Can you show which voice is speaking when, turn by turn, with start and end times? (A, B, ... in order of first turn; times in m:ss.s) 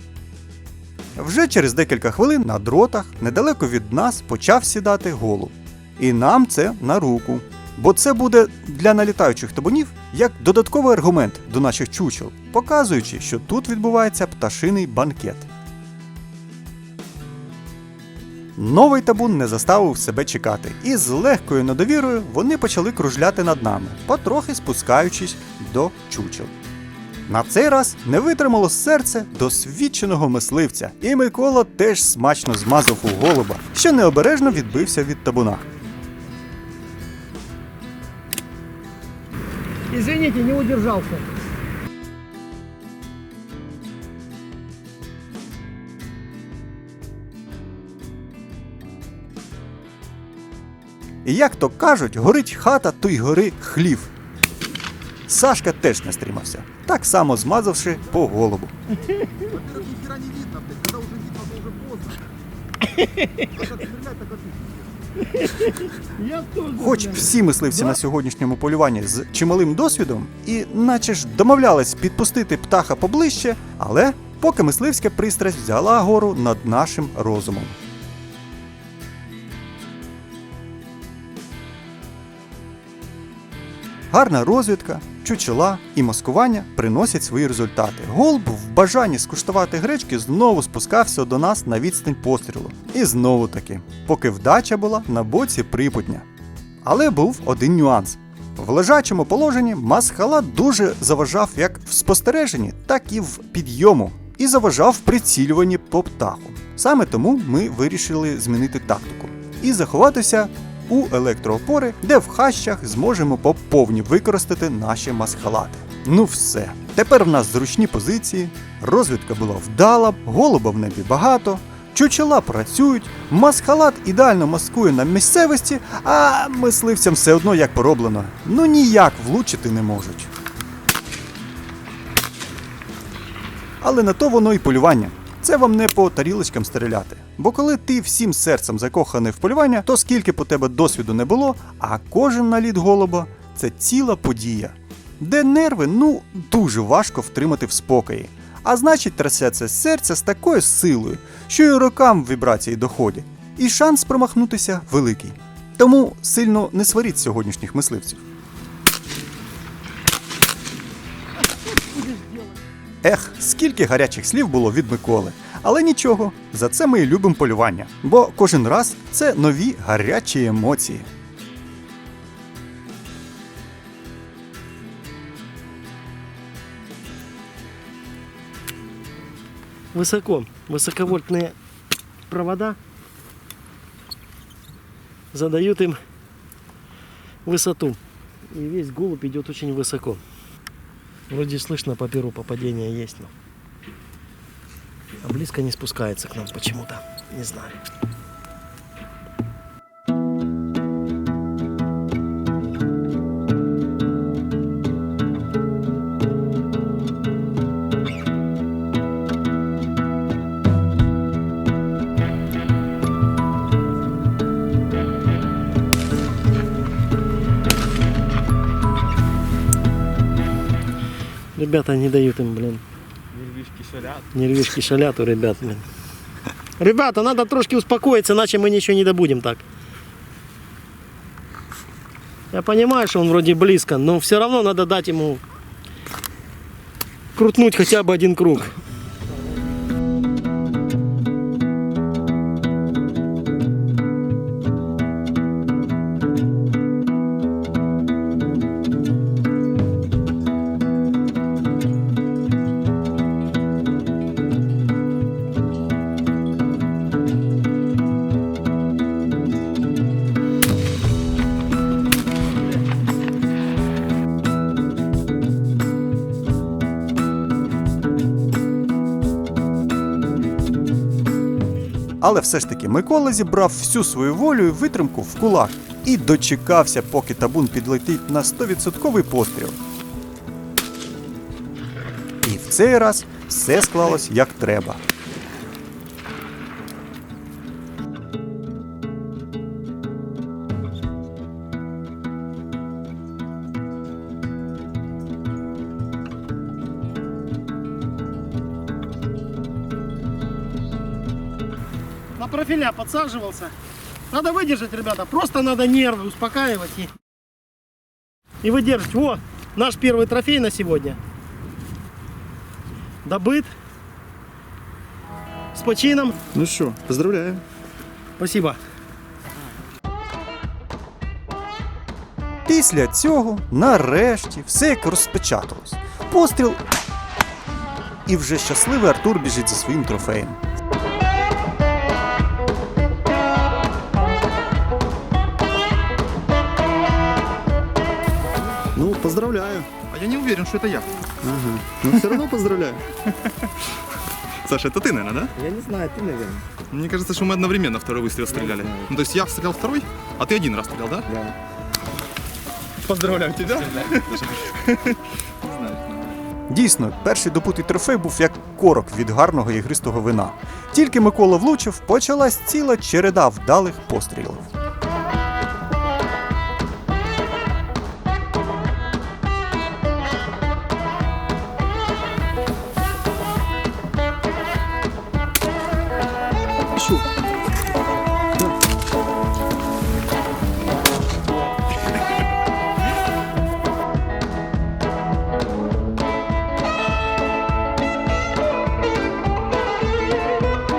0:01.2-0:15.5 A
0:18.6-0:26.6 A
0:27.3-0:35.7 A
0:39.9-0:41.3 B
0:51.2-0:54.1 A
0:55.3-0:58.7 A
0:59.6-1:02.2 C
1:02.9-1:03.7 B
1:03.6-1:04.9 C
1:05.2-1:07.4 B
1:06.8-1:17.8 A
1:24.1-1:36.3 A
1:36.8-2:10.3 A
2:13.8-2:38.2 A
2:43.0-2:51.1 A
2:59.9-3:01.6 B
3:02.3-3:02.8 B
3:05.3-3:06.0 B
3:07.4-3:10.2 B
3:11.3-3:13.3 B
3:15.2-3:17.8 B
3:41.6-3:42.8 B
3:43.4-3:44.1 C
3:44.3-3:45.8 B
3:46.8-3:49.6 B
3:52.5-3:55.4 B
3:57.4-3:58.8 B
4:32.2-4:39.8 A
4:42.4-4:45.0 A
5:02.4-5:03.7 B
5:04.3-5:07.1 B
5:08.6-5:11.2 B
5:13.2-5:13.7 B
5:15.7-5:16.4 B
5:16.5-5:17.6 D
5:18.4-5:18.8 B
5:22.7-5:26.8 A
5:28.3-5:30.6 A
5:39.0-5:39.9 D
5:40.0-5:41.1 C
5:41.4-5:43.0 D
5:42.1-5:42.4 C
5:43.2-5:43.9 C
5:44.6-5:45.5 C
5:45.6-5:46.6 B
5:46.9-5:51.3 C
5:53.0-5:56.4 C
5:56.7-6:04.7 A